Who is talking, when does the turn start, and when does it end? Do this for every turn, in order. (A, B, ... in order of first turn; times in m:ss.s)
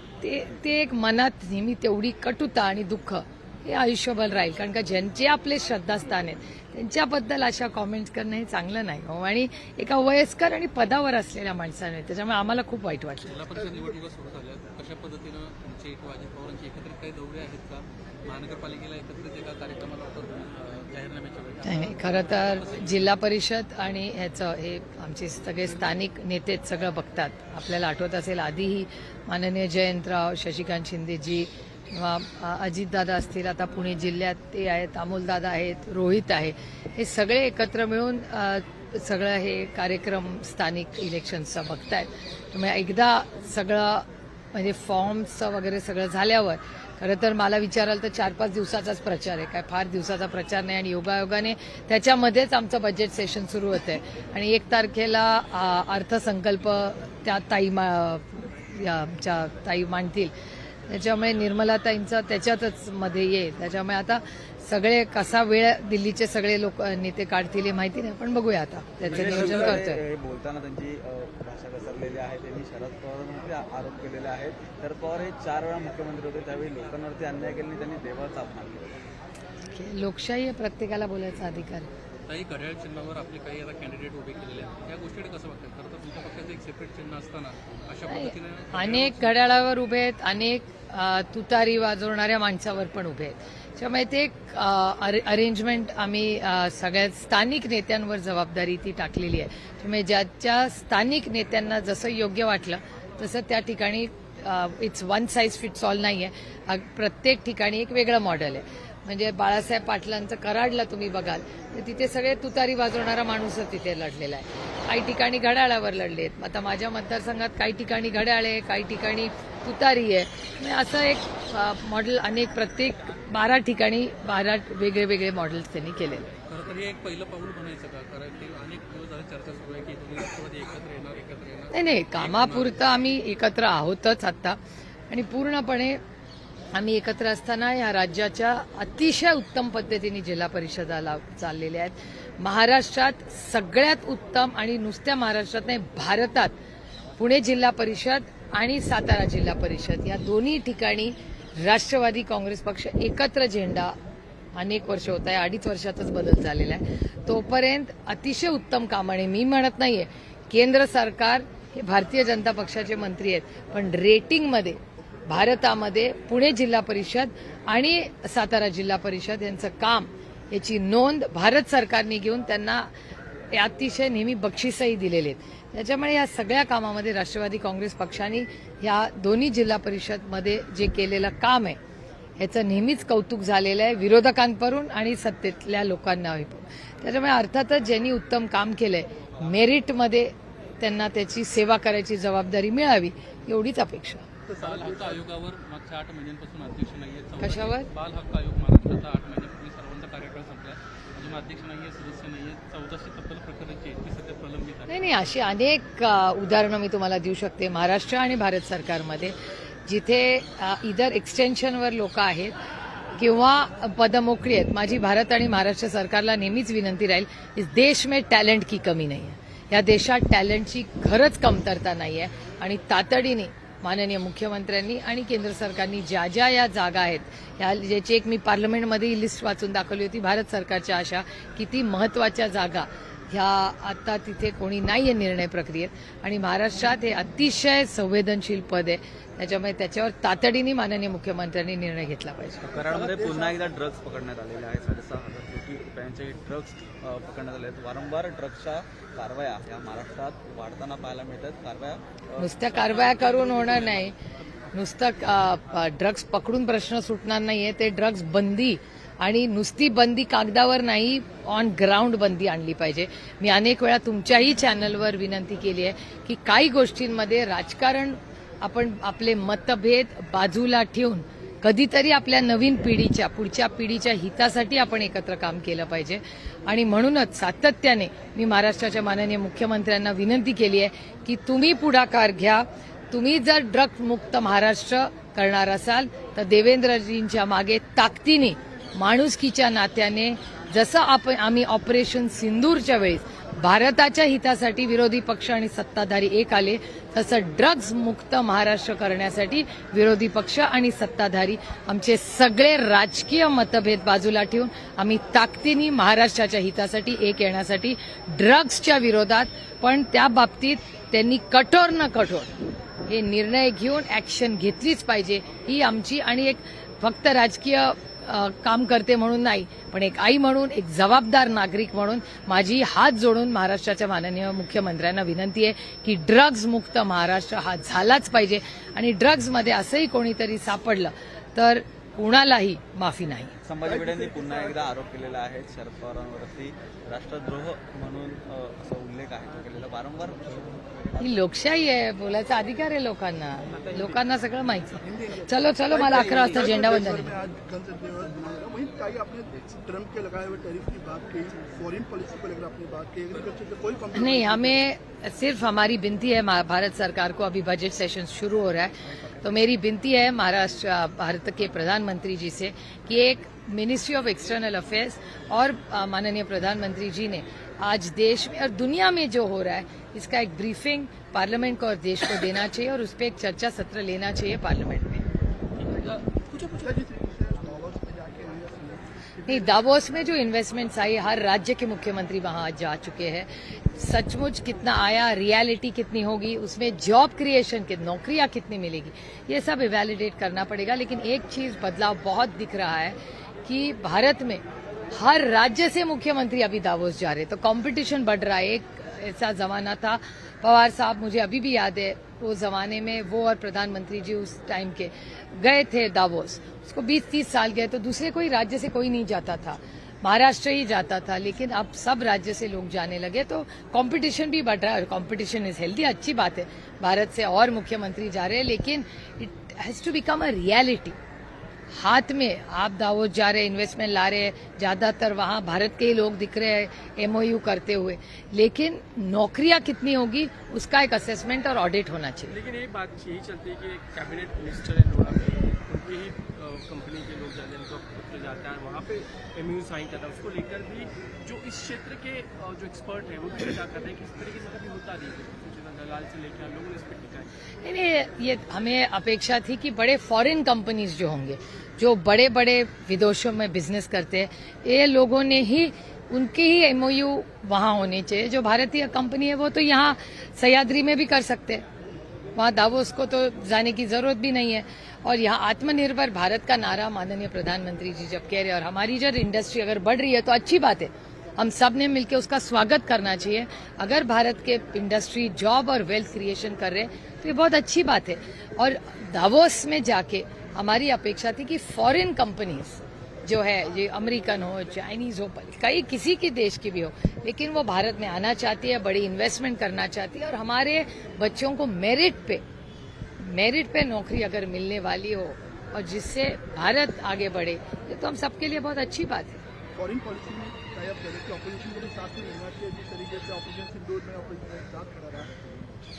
0:00.2-0:13.4 A
0:13.2-0:23.1 B
0:13.6-0:14.0 C
0:21.6-1:00.3 A
1:00.9-1:10.0 A
1:09.0-1:18.9 D
1:09.1-1:09.8 B
1:19.8-1:21.9 A
1:22.3-1:29.4 B
1:28.1-2:06.3 A
2:06.5-2:12.8 B
2:11.7-2:14.6 A
2:15.1-2:16.0 A
2:16.7-2:26.5 A
2:27.2-2:34.0 A
2:34.6-2:52.9 A
2:53.5-3:01.8 A
3:02.4-3:14.3 A
3:14.5-3:15.2 C
3:14.6-3:25.0 B
3:17.4-3:17.9 A
3:24.9-3:32.6 A
3:33.2-4:02.7 A
4:02.7-4:12.6 D
4:02.7-4:03.6 C
4:12.4-4:14.1 A
4:12.6-4:14.1 B
4:14.7-5:12.5 A
5:13.1-5:33.6 A
5:33.6-5:41.4 D
5:33.8-5:34.9 C
5:41.2-5:47.3 A
5:43.7-5:44.2 E
5:45.0-5:54.8 C
5:46.4-5:46.7 E
5:54.1-6:15.2 A
6:16.0-6:19.8 C
6:19.5-7:01.2 A
7:01.9-7:12.6 A
7:12.5-7:27.5 E
7:27.8-7:41.8 A
7:42.6-8:12.6 A
8:13.4-8:19.6 A
8:20.0-8:25.6 C